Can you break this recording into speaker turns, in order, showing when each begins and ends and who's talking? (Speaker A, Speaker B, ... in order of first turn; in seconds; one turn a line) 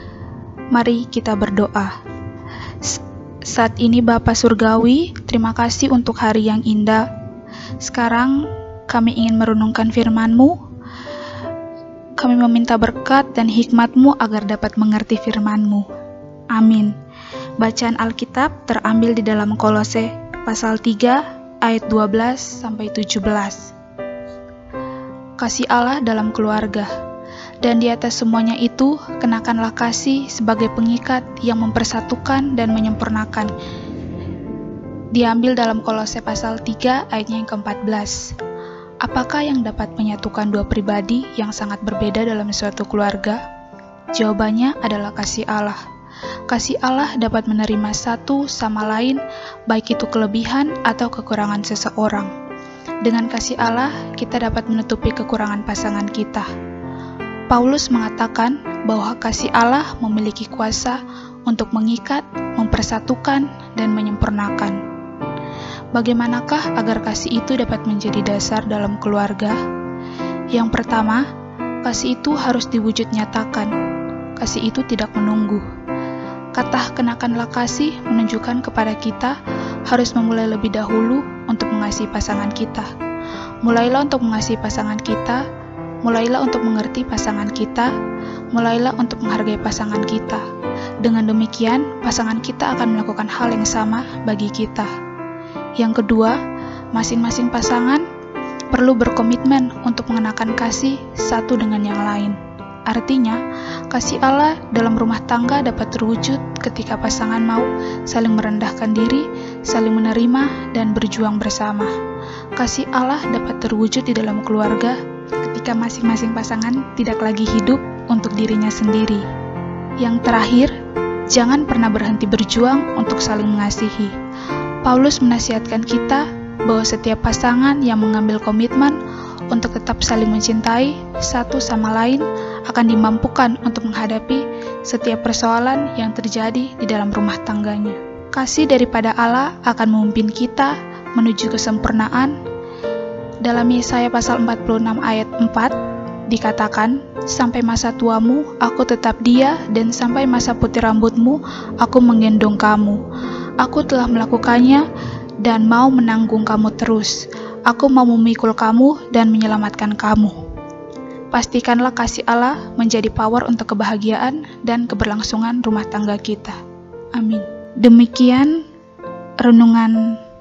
Speaker A: 0.7-1.9
Speaker A: 2.8-7.0
Speaker A: 7.8-10.6
Speaker A: 12.2-15.9
Speaker A: 16.5-16.9
Speaker A: 17.6-23.7
Speaker A: 25.4-26.9
Speaker A: 27.6-33.5
Speaker A: 35.1-38.4
Speaker A: 39.0-43.4
Speaker A: 44.1-45.8
Speaker A: 46.5-52.3
Speaker A: 53.0-56.5
Speaker A: 57.5-64.8
Speaker A: 65.9-69.6
Speaker A: 70.5-71.2
Speaker A: 71.8-73.7
Speaker A: 74.4-75.7
Speaker A: 76.5-79.4
Speaker A: 79.9-82.9
Speaker A: 83.6-85.4
Speaker A: 86.0-87.9
Speaker A: 88.5-90.4
Speaker A: 91.0-94.9
Speaker A: 95.8-96.4
Speaker A: 96.9-98.0
Speaker A: 98.7-103.4
Speaker A: 103.9-111.9
Speaker A: 112.6-119.2
Speaker A: 120.0-120.7
Speaker A: 121.3-124.1
Speaker A: 124.8-129.0
Speaker A: 129.5-142.4
Speaker A: 143.4-145.7
Speaker A: 146.3-153.0
Speaker A: 153.6-154.8
Speaker A: 155.4-160.4
Speaker A: 161.3-166.6
Speaker A: 167.2-168.6
Speaker A: 169.4-170.2